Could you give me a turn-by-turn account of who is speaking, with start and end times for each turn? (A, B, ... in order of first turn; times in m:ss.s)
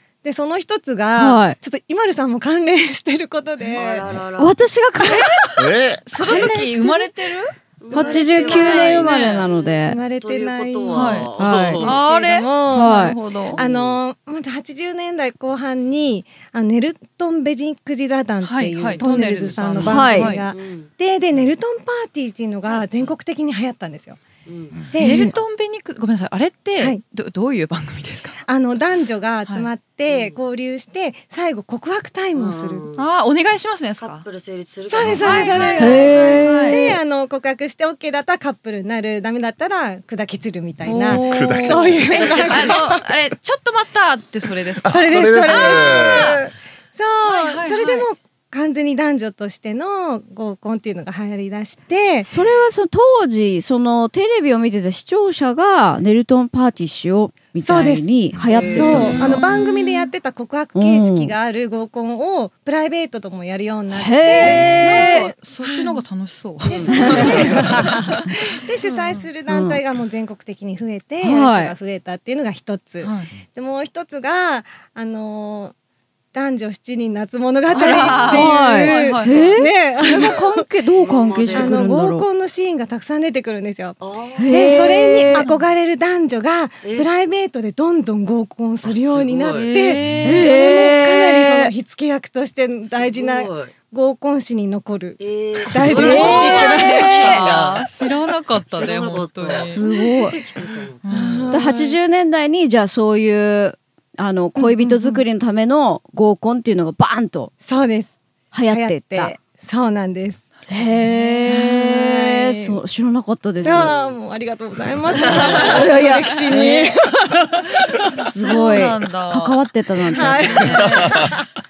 0:00.2-0:04.1 A
0:01.2-0:01.6 B
0:03.7-0:04.6 C
0:04.4-0:05.6 B
0:05.1-0:05.6 A
0:05.6-0:06.0 D
0:06.1-0:09.2 E
0:06.2-0:07.1 B
0:06.2-0:06.6 A
0:07.8-0:12.0 C
0:07.9-0:24.2 A
0:07.9-0:10.0 B
0:10.9-0:13.6 E
0:11.4-0:11.9 B
0:12.7-0:13.2 B
0:13.5-0:14.0 C
0:18.4-0:20.4 E
0:19.8-0:21.5 C
0:19.8-0:20.3 B
0:22.7-0:23.1 C
0:24.4-0:24.9 C
0:24.9-0:25.3 A
0:25.0-0:28.4 E
0:25.0-0:25.4 B
0:28.4-0:32.8 A
0:30.1-0:30.4 C
0:32.3-0:33.0 C
0:33.0-0:34.2 E
0:34.0-0:36.6 C
0:34.9-0:43.0 A
0:35.2-0:37.0 E
0:35.8-0:36.9 B
0:40.8-0:46.4 E
0:41.1-0:42.8 D
0:44.8-0:46.4 D
0:44.9-0:52.3 A
0:47.2-0:48.1 E
0:52.2-0:59.4 B
0:57.6-1:06.0 A
0:58.3-0:59.5 C
0:58.6-1:00.1 E
1:00.8-1:01.3 B
1:03.9-1:05.3 B
1:04.3-1:08.3 E
1:04.4-1:04.8 C
1:06.7-1:15.7 A
1:06.7-1:07.7 C
1:06.9-1:07.4 B
1:08.8-1:09.3 E
1:09.5-1:09.8 B
1:11.2-1:11.7 B
1:13.0-1:13.3 E
1:16.3-1:20.6 A
1:17.7-1:19.6 E
1:17.7-1:18.5 C
1:18.3-1:22.3 B
1:20.0-1:20.4 C
1:21.0-1:22.0 C
1:21.5-1:37.5 A
1:24.0-1:25.1 C
1:24.4-1:25.5 B
1:25.4-1:25.6 E
1:26.8-1:27.1 C
1:28.8-1:30.3 C
1:29.6-1:30.5 E
1:30.2-1:31.7 B
1:32.9-1:33.8 C
1:35.2-1:37.9 C
1:35.8-1:39.8 E
1:35.9-1:37.5 B
1:38.7-1:41.5 C
1:39.7-1:40.4 B
1:41.0-1:41.6 E
1:41.1-1:42.0 A
1:41.5-1:47.5 B
1:44.6-1:45.2 A
1:47.6-1:48.2 A
1:48.5-1:49.4 B
1:48.7-1:50.4 A
1:50.7-1:51.5 E
1:50.7-1:54.0 B
1:51.5-1:52.8 A
1:53.6-1:54.2 C
1:53.6-1:58.0 A
1:55.1-1:55.9 C
1:55.3-1:55.6 E
1:55.4-1:57.0 B
1:58.3-2:01.4 E
1:58.3-2:00.6 B
2:00.1-2:01.4 A
2:01.0-2:01.4 D